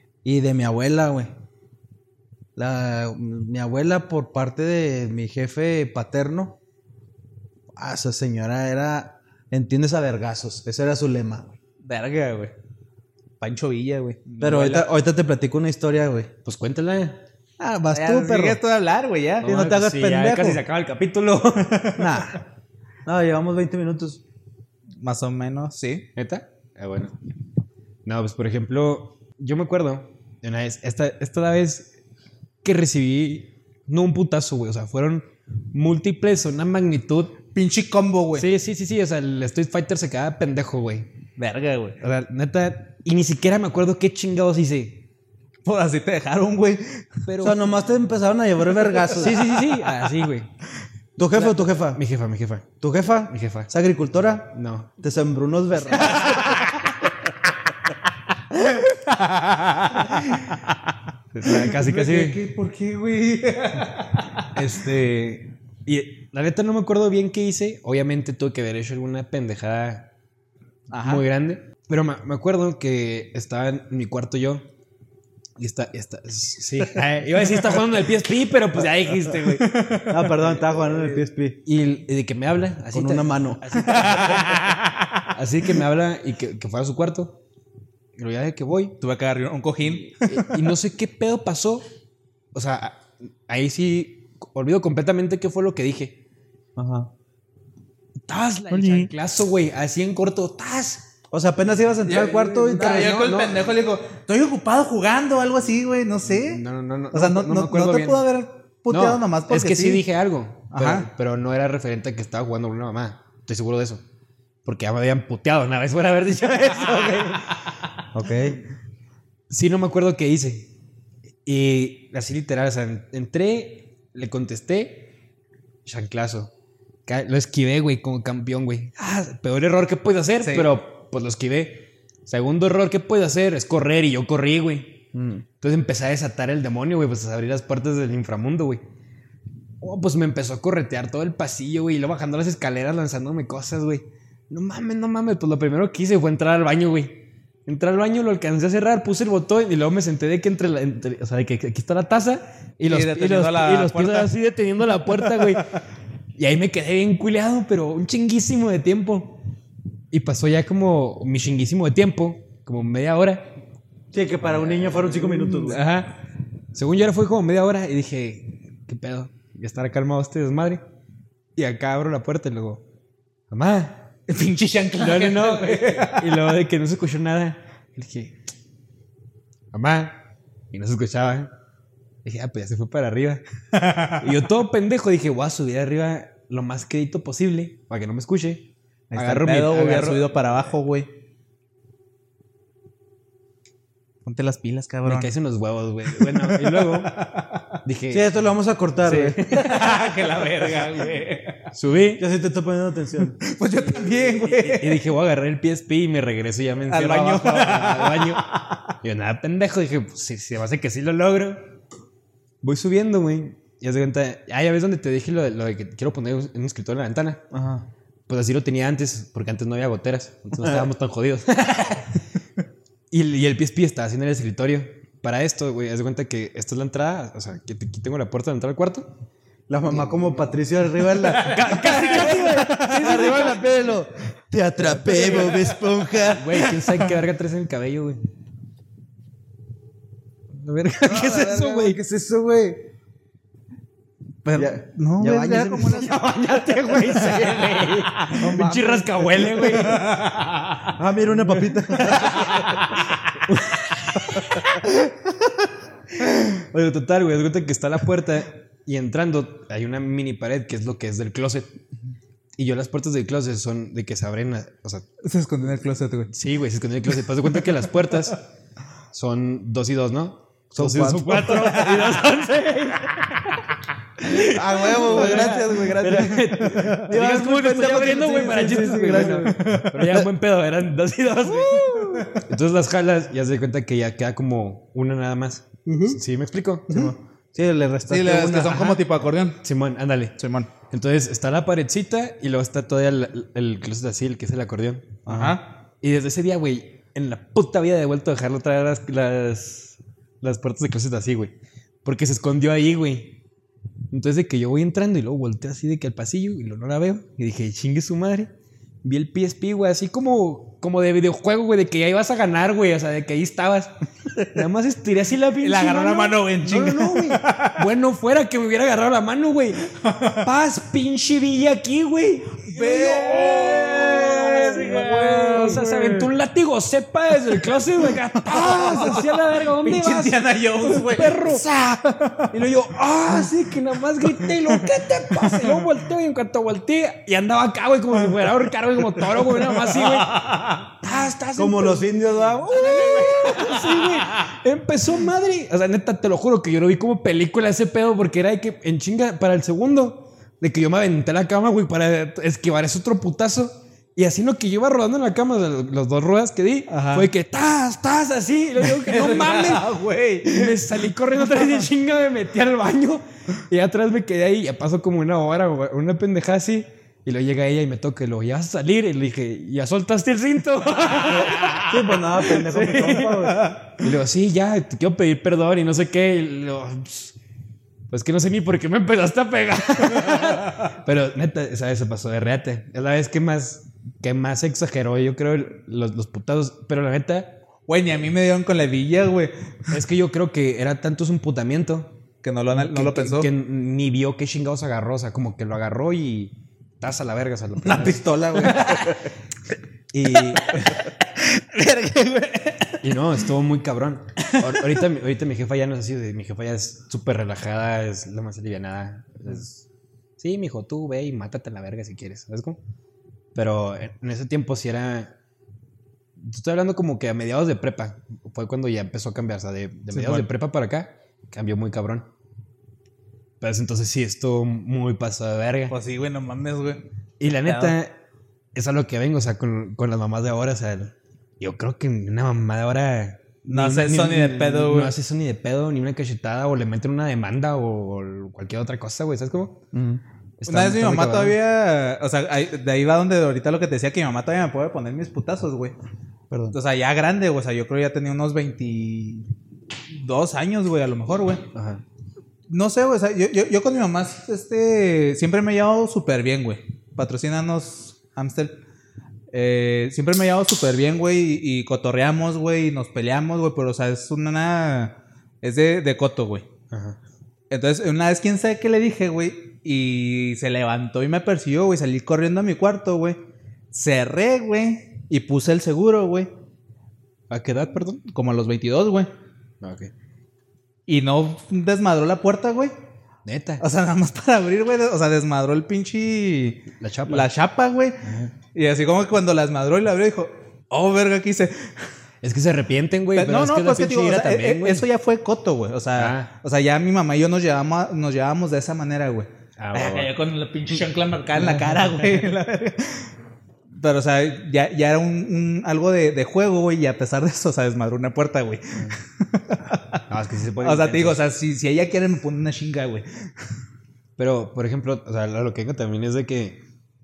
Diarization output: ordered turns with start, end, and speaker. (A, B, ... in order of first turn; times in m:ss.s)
0:00.2-0:01.3 A
0:02.6-0:06.6 A
0:07.8-0:11.5 A
0:11.8-0:12.5 B
0:13.4-0:14.9 B
0:14.4-0:16.3 A
0:16.4-0:17.2 C
0:17.6-0:18.6 A
0:17.9-0:19.5 B
0:19.4-0:20.6 A
0:19.4-0:22.0 C
0:21.7-0:22.1 B
0:22.0-0:22.4 A
0:23.0-0:24.2 A
0:25.0-0:26.1 B
0:26.1-0:27.2 C
0:28.0-0:31.9 C
0:32.6-0:37.4 C
0:37.5-0:38.4 B
0:38.3-0:41.1 C
0:41.4-0:42.0 B
0:42.0-0:45.0 C
0:45.6-0:47.1 B
0:47.2-0:47.6 C
0:47.4-0:49.5 A
0:49.1-0:50.5 C
0:51.2-0:52.0 A
0:51.3-0:52.7 C
0:52.8-0:56.5 A
0:53.3-0:53.7 C
0:54.5-0:54.9 C
0:56.1-0:56.7 B
0:58.8-1:00.6 B
1:01.3-1:02.4 C
1:01.4-1:04.8 B
1:04.5-1:10.1 C
1:10.9-1:11.2 B
1:11.0-1:14.7 C
1:15.6-1:19.8 C
1:19.6-1:20.3 B
1:20.0-1:21.6 A
1:21.6-1:24.7 C
1:22.9-1:23.7 A
1:23.9-1:24.8 B
1:25.3-1:27.4 C
1:28.2-1:29.0 C
1:29.0-1:30.5 B
1:29.9-1:31.8 C
1:32.5-1:36.2 C
1:36.8-1:37.1 A
1:38.3-1:41.1 C
1:38.7-1:39.1 A
1:41.3-1:43.4 A
1:42.1-1:50.0 B
1:42.6-1:43.6 C
1:46.2-1:48.2 C
1:48.9-1:54.0 C
1:50.7-1:51.1 B
1:54.6-1:57.5 C
1:58.1-1:58.6 A
1:59.5-2:00.7 C
2:01.4-2:05.1 C
2:05.8-2:06.5 C
2:07.1-2:15.0 C
2:10.4-2:10.7 B
2:15.1-2:15.4 A
2:15.6-2:18.8 C
2:19.8-2:35.7 C
2:32.9-2:34.3 B
2:36.4-2:39.4 C
2:40.1-2:43.5 C
2:44.1-2:45.8 A
2:44.7-2:46.2 C
2:46.7-2:50.8 C
2:51.6-2:52.8 C
2:53.5-2:54.1 C
2:54.3-2:56.4 B
2:55.0-2:58.4 C
2:59.7-3:01.5 C
3:02.2-3:03.4 C
3:03.9-3:04.2 B
3:04.0-3:10.3 C
3:09.1-3:11.1 B
3:14.2-3:15.3 B
3:15.0-3:17.2 C
3:16.1-3:17.6 B
3:17.8-3:18.3 C
3:18.1-3:19.4 A
3:19.0-3:19.8 C
3:19.5-3:21.7 B
3:21.7-3:22.2 C
3:22.2-3:23.4 A
3:23.4-3:25.0 B
3:23.9-3:28.4 C
3:26.9-3:28.8 B
3:29.0-3:31.7 C
3:32.6-3:37.5 C
3:37.5-3:37.9 A
3:38.3-3:42.2 C
3:40.6-3:40.8 A
3:43.1-3:49.1 C
3:49.7-3:56.9 A
3:49.9-3:50.4 C
3:51.3-3:53.6 C
3:51.4-3:52.8 B
3:56.2-3:58.2 C
4:00.6-4:02.0 C
4:01.0-4:02.8 A
4:04.4-4:06.2 B
4:04.5-4:06.1 A
4:05.8-4:10.2 C
4:07.2-4:08.7 B
4:08.4-4:09.4 A
4:09.6-4:10.9 B
4:10.9-4:12.7 A
4:12.0-4:14.9 C
4:16.2-4:21.8 C
4:22.6-4:25.0 C
4:25.2-4:26.3 B
4:26.3-4:28.4 C
4:29.1-4:33.6 C
4:30.7-4:31.8 A
4:31.4-4:32.2 B
4:34.2-4:47.1 C
4:34.4-4:40.3 A
4:39.2-4:40.1 B
4:41.5-4:42.4 A
4:46.9-4:49.0 A
4:48.1-4:49.6 B
4:49.6-4:50.4 C
4:50.4-4:50.7 B
4:50.9-4:55.2 C
4:55.2-4:55.6 B
4:55.3-4:55.6 A
4:56.0-5:03.4 C
5:04.1-5:08.5 C
5:09.0-5:40.4 C
5:15.6-5:17.8 B
5:20.0-5:20.4 B
5:22.6-5:26.3 B
5:25.4-5:25.8 A
5:28.5-5:31.6 B
5:32.2-5:32.5 B
5:34.2-5:35.9 B
5:39.3-5:40.8 B
5:41.0-5:59.9 C
5:41.6-5:43.6 A
5:43.0-5:44.1 B
5:56.9-5:57.3 B
5:58.8-6:00.9 B
6:00.4-6:17.4 C
6:11.7-6:13.7 A
6:18.1-6:27.6 C
6:27.9-6:29.5 B
6:29.9-6:32.2 C
6:32.4-6:33.5 B
6:32.7-6:38.9 C
6:37.8-6:39.2 A
6:38.5-6:39.2 B
6:40.1-6:41.0 C
6:40.3-6:43.0 B
6:43.0-6:49.8 C
6:44.5-6:45.0 B
6:50.4-6:52.8 C
6:53.5-6:55.3 C
6:56.4-7:02.3 C
7:00.1-7:00.4 B
7:03.6-7:05.9 C
7:05.9-7:07.0 B
7:07.4-7:08.2 C
7:07.6-7:07.9 B
7:08.7-7:19.8 C
7:13.7-7:15.1 B
7:19.9-7:20.2 A
7:20.6-7:21.6 C
7:20.7-7:25.9 B
7:26.5-7:26.8 A
7:26.7-7:29.5 B
7:30.1-7:31.6 B
7:31.7-7:32.0 C
7:32.7-7:38.8 B
7:39.5-7:46.6 B
7:46.9-7:47.2 C
7:47.7-7:53.4 B
7:53.9-7:56.5 B
7:57.5-7:58.2 C
7:58.3-7:59.3 B
7:59.8-8:00.1 C
8:01.1-8:02.9 B
8:03.4-8:03.8 C
8:03.8-8:12.0 B
8:07.0-8:07.5 C
8:08.2-8:08.5 C
8:12.4-8:15.0 C
8:13.3-8:23.3 B
8:16.2-8:16.5 C
8:19.8-8:20.3 C
8:23.9-8:30.2 B
8:30.3-8:31.4 C
8:30.8-8:33.5 B
8:34.4-8:36.8 C